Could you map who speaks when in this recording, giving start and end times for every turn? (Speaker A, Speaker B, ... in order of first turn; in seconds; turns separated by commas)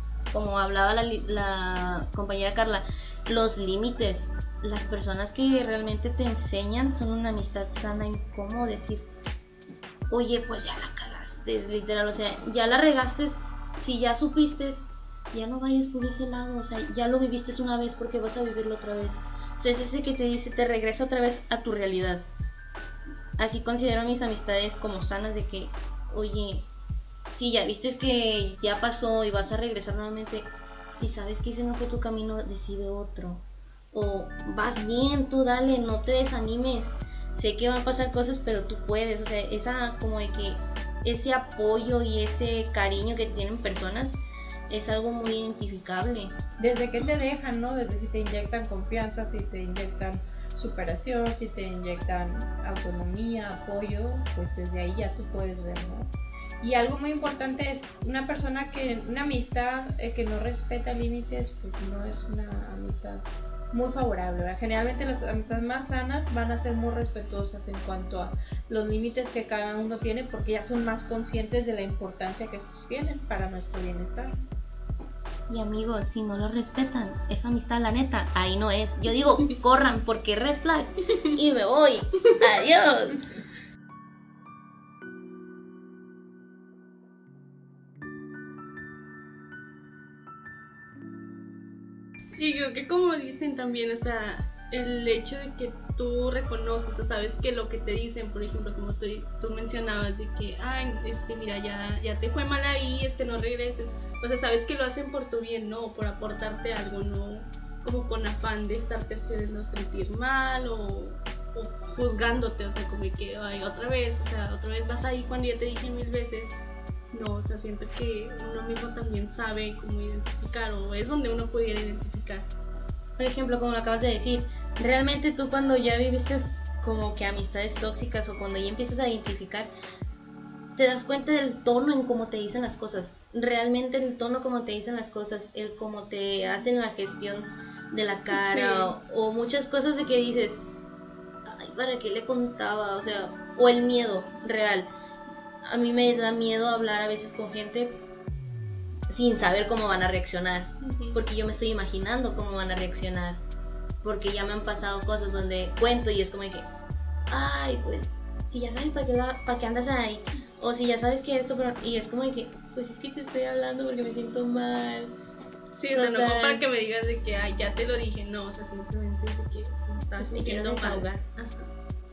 Speaker A: 0.3-9.1, Speaker A: 10.1-22.2, Speaker A: 23.4-26.7, Speaker A: 27.3-46.4, Speaker B: 46.6-74.4, Speaker A: 75.5-83.2, Speaker C: 92.4-116.6, Speaker C: 117.1-122.5, Speaker A: 123.2-129.7, Speaker A: 130.8-140.6, Speaker C: 138.3-138.9, Speaker A: 141.4-144.9, Speaker A: 145.6-148.0, Speaker A: 149.1-153.4, Speaker C: 150.8-151.2, Speaker A: 154.0-156.7, Speaker A: 157.3-165.1, Speaker C: 165.7-171.7, Speaker A: 165.9-166.6, Speaker A: 170.2-171.2